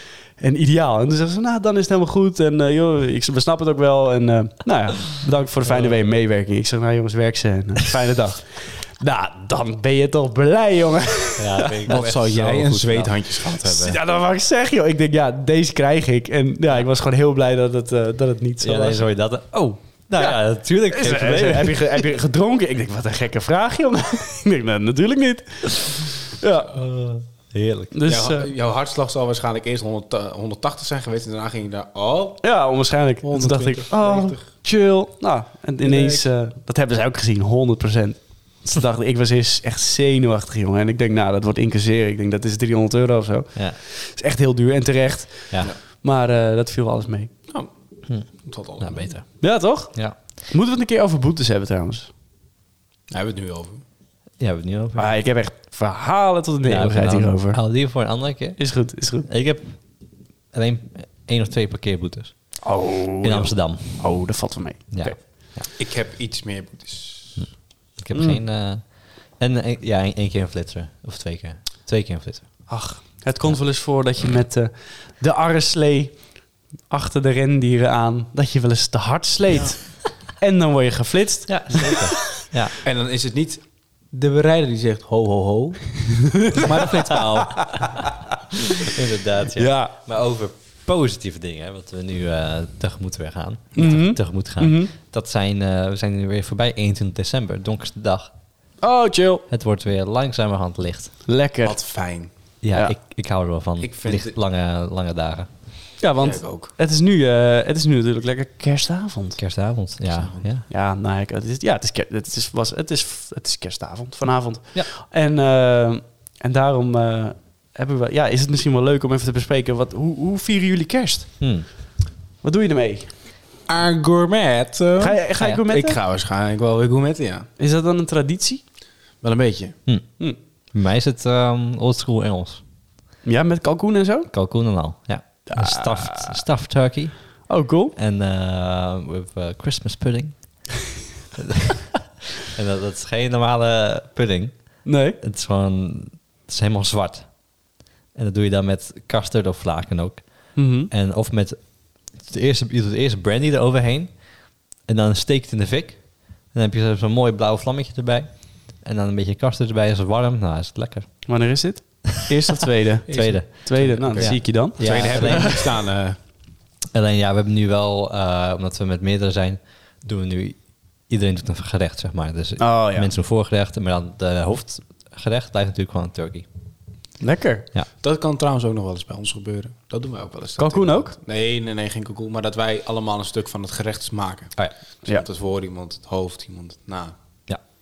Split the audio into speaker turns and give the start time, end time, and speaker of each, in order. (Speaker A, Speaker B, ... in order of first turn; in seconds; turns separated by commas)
Speaker A: 0.4-12.0, Speaker B: 5.6-6.0, Speaker B: 11.4-13.2, Speaker C: 11.8-14.0, Speaker A: 13.6-19.1, Speaker B: 18.6-22.0, Speaker A: 20.9-26.7, Speaker B: 26.7-27.9, Speaker A: 27.9-28.5, Speaker C: 28.1-32.5, Speaker A: 32.4-47.3, Speaker C: 33.2-34.4, Speaker C: 35.8-36.2, Speaker C: 47.5-49.2, Speaker B: 48.1-49.4, Speaker A: 49.4-52.1, Speaker C: 53.1-53.8, Speaker B: 54.4-55.2, Speaker A: 55.0-57.6, Speaker B: 56.6-60.0, Speaker A: 58.6-59.3, Speaker B: 60.5-62.7, Speaker A: 62.6-65.2, Speaker B: 63.2-64.2, Speaker B: 64.9-65.7, Speaker C: 65.7-67.5, Speaker B: 67.4-72.7, Speaker A: 72.7-76.3, Speaker A: 76.9-82.1, Speaker B: 81.5-82.8, Speaker C: 82.8-87.8, Speaker B: 86.8-88.1, Speaker A: 87.5-87.9, Speaker B: 88.8-98.3, Speaker A: 89.5-89.9, Speaker A: 93.8-94.9, Speaker A: 98.8-99.4, Speaker B: 99.5-101.1, Speaker A: 101.2-101.8, Speaker C: 101.6-102.3, Speaker B: 102.6-105.5, Speaker C: 103.8-104.3, Speaker A: 106.0-109.4, Speaker C: 106.2-106.7, Speaker B: 109.4-110.7, Speaker C: 110.1-110.5, Speaker A: 110.7-121.3, Speaker B: 121.4-121.7, Speaker A: 122.4-123.1, Speaker C: 123.7-127.5, Speaker A: 125.0-126.0, Speaker A: 127.6-128.6, Speaker C: 129.2-129.8, Speaker B: 130.7-132.6, Speaker A: 133.2-134.3, Speaker B: 134.3-140.8, Speaker A: 135.5-136.4, Speaker A: 137.5-137.9, Speaker B: 141.3-147.6, Speaker A: 144.8-145.2, Speaker B: 148.1-161.3, Speaker A: 150.5-150.9, Speaker A: 161.2-165.5, Speaker C: 163.1-166.2, Speaker B: 163.1-165.7, Speaker B: 166.9-176.4, Speaker A: 172.6-173.1, Speaker A: 177.2-177.7, Speaker C: 178.0-187.1, Speaker A: 180.6-181.1